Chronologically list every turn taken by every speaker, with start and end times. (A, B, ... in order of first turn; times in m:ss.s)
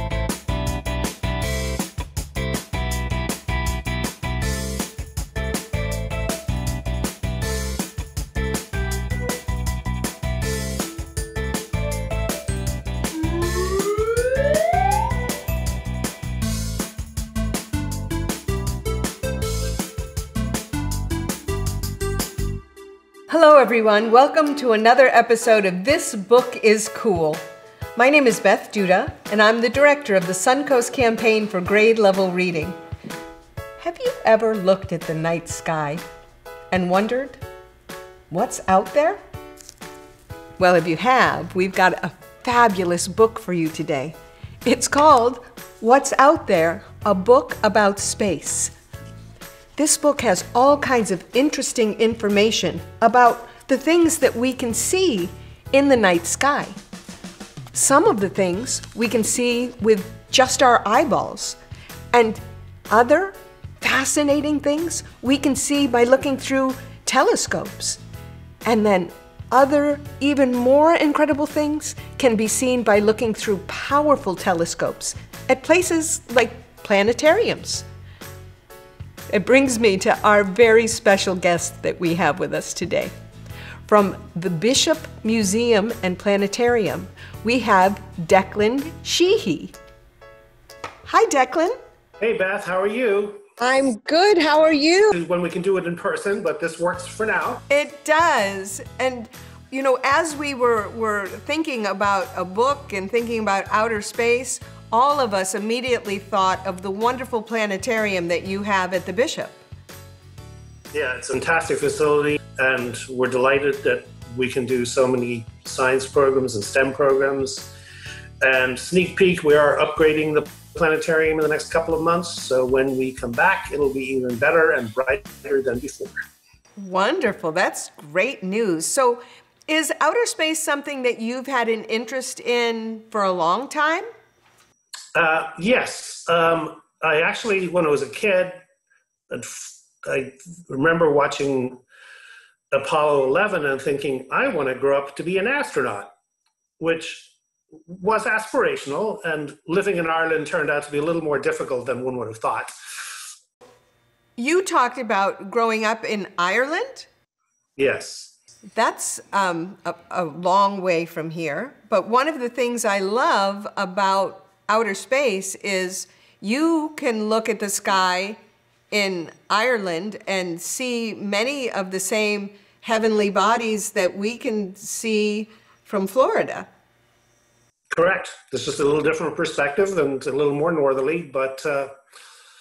0:23.3-0:32.8 A
0:33.8-0:36.0 A
0:36.7-0:37.4 A
0:38.3-0:39.2 A
0:40.6-0:48.7 A
0:49.8-0:56.7 A
0:57.7-1:01.6 A
1:02.1-1:08.0 A
1:08.6-1:17.8 A
1:19.3-1:23.1 A
1:23.8-1:29.8 A
1:31.0-1:31.8 A
1:32.2-1:33.4 B
1:33.6-1:35.2 A
1:35.1-1:37.6 B
1:37.7-1:49.6 A
1:50.9-1:57.7 B
1:58.4-2:06.1 B
2:06.8-2:14.0 A
2:15.1-2:18.6 B
2:19.3-2:21.8 B
2:22.7-2:26.1 B
2:26.8-2:27.3 B
2:27.9-2:32.7 B
2:34.4-2:37.1 A
2:37.8-2:38.3 B
2:38.7-2:48.4 A
2:48.9-2:56.7 A
2:57.9-3:01.9 B